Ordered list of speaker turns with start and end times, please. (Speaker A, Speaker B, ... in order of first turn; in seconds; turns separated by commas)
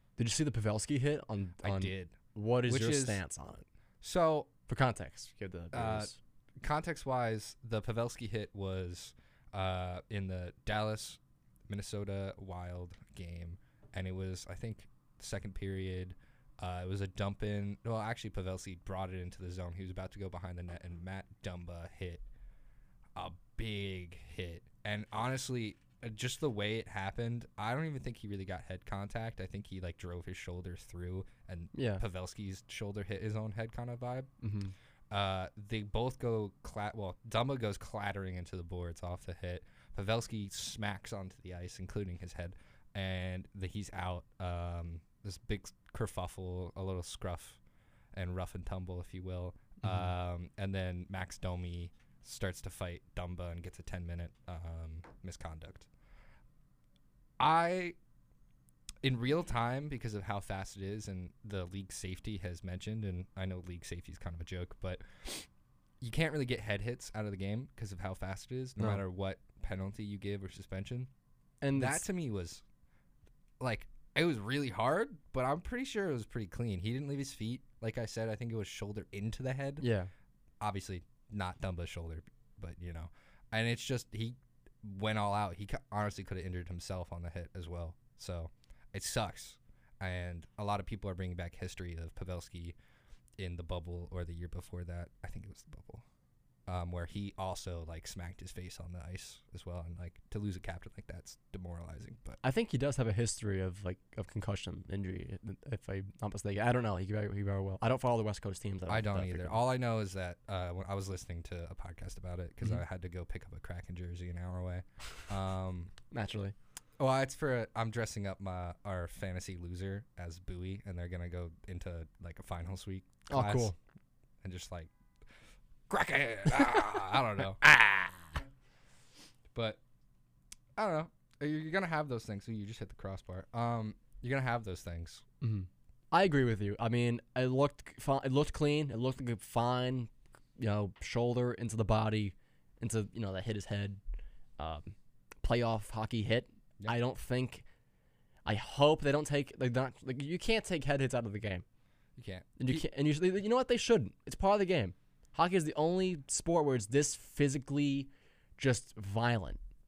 Speaker A: 0.2-3.6, Speaker B: 1.6-3.2, Speaker B: 4.0-4.5, Speaker A: 4.7-6.2, Speaker B: 5.7-22.2, Speaker B: 23.1-34.3, Speaker A: 31.7-32.0, Speaker A: 34.4-34.7, Speaker B: 35.1-47.6, Speaker B: 48.1-55.9, Speaker A: 49.8-50.1, Speaker B: 57.4-58.0, Speaker B: 59.0-65.5, Speaker B: 66.0-71.1, Speaker A: 71.6-72.0, Speaker B: 71.7-72.6, Speaker B: 73.6-79.8, Speaker A: 79.8-80.1, Speaker B: 80.6-92.8, Speaker B: 93.4-96.0, Speaker B: 96.7-102.4, Speaker A: 102.4-109.6, Speaker B: 108.9-115.9, Speaker A: 116.1-116.5, Speaker B: 117.0-123.7, Speaker A: 123.3-123.8, Speaker B: 124.4-124.9, Speaker B: 125.9-128.4, Speaker B: 129.5-129.8, Speaker B: 130.8-135.2, Speaker A: 135.4-144.0, Speaker A: 144.6-147.6, Speaker A: 148.4-151.6, Speaker B: 152.2-152.8, Speaker A: 152.6-159.6